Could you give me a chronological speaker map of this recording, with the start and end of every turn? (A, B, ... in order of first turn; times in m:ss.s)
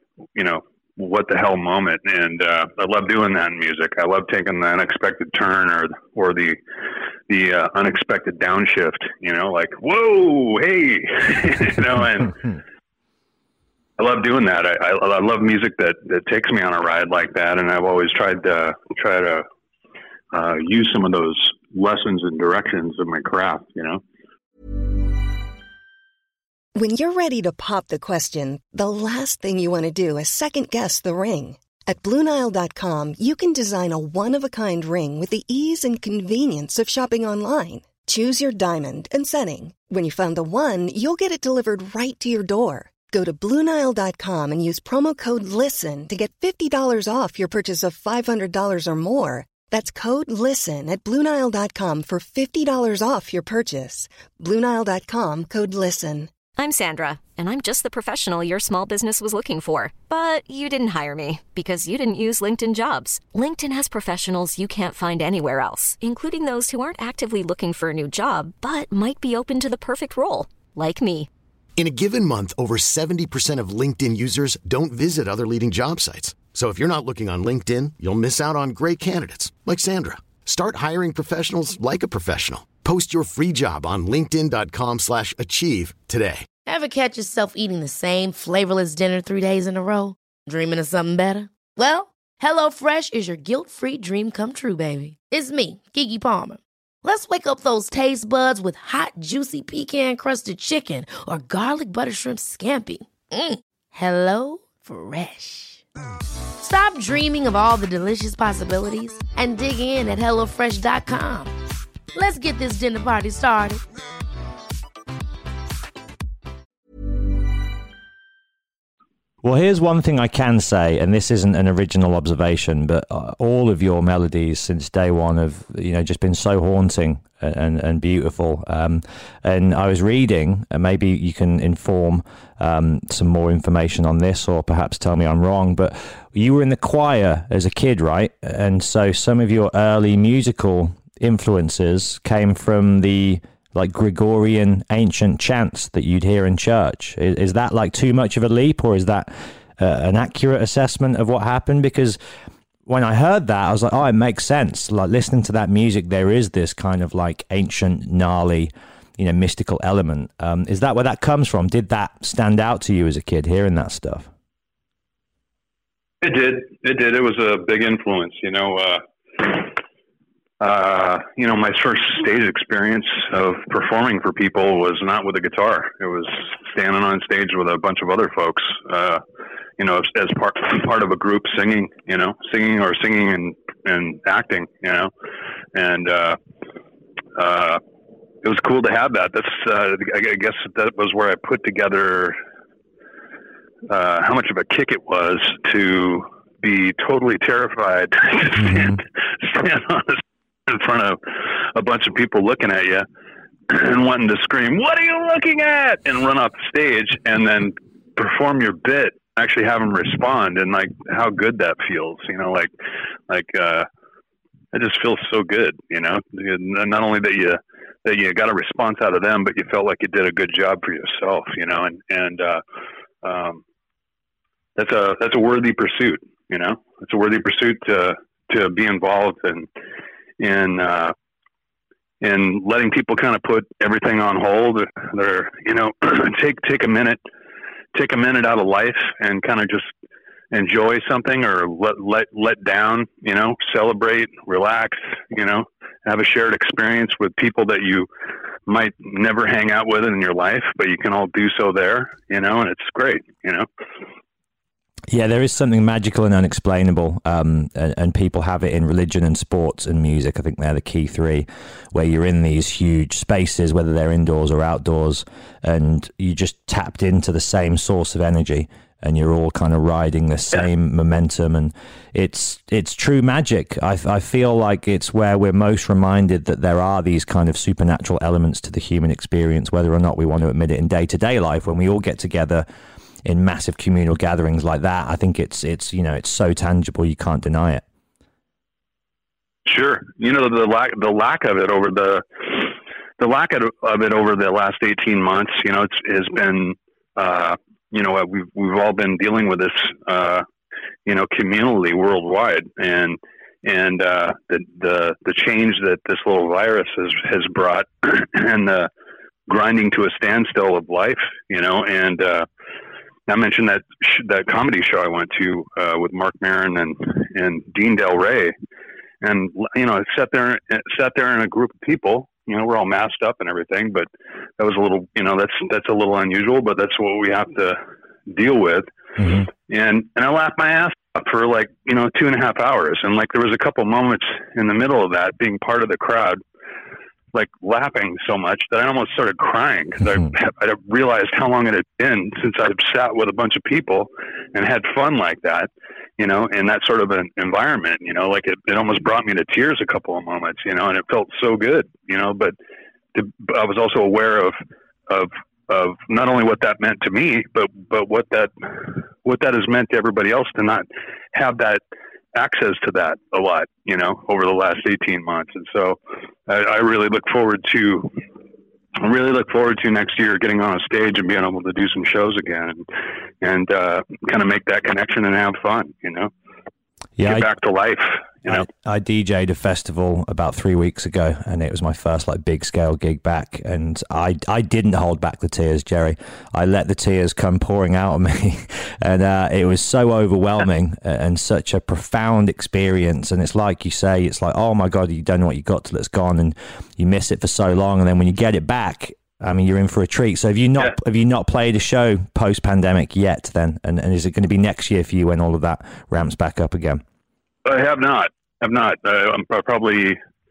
0:00.3-0:06.6 A
0:07.3-0:12.5 A
0:14.0-0:19.4 A
0:20.3-0:24.0 A
0:26.8-0:56.3 B
0:56.6-1:11.3 C
1:11.8-1:26.5 D
1:26.6-1:45.8 E
1:46.6-1:51.5 E
1:52.1-1:53.8 E
1:59.4-2:32.2 F
2:32.8-2:44.3 F
2:46.2-2:49.8 A
2:50.6-2:59.2 A
2:59.8-3:05.1 A
3:05.7-3:06.4 A
3:07.4-3:07.8 A
3:08.4-3:12.4 A
3:13.9-3:23.0 A
3:18.6-3:19.0 F
3:23.7-3:32.7 A
3:33.3-3:33.9 A
3:34.7-3:42.6 A
3:43.2-3:43.6 A
3:44.8-3:49.7 A
3:50.4-3:51.1 A
3:52.2-3:57.2 A
3:57.9-3:59.9 A
4:00.5-4:08.1 A
4:08.7-4:13.7 A
4:15.1-4:42.6 F
4:43.2-4:47.8 F
4:49.6-5:00.4 A
5:01.0-5:08.9 A
5:09.5-5:12.5 A
5:13.3-5:18.5 A
5:19.2-5:24.1 A
5:24.6-5:28.9 A
5:29.2-5:29.5 F
5:29.7-5:36.4 A
5:37.3-5:52.5 A
5:53.1-5:54.6 A
5:55.1-6:01.8 A
6:02.3-6:08.1 A
6:09.0-6:12.8 A
6:13.4-6:16.3 A
6:17.2-6:17.4 F
6:17.2-6:18.6 A
6:18.5-6:47.0 F
6:47.6-6:50.2 A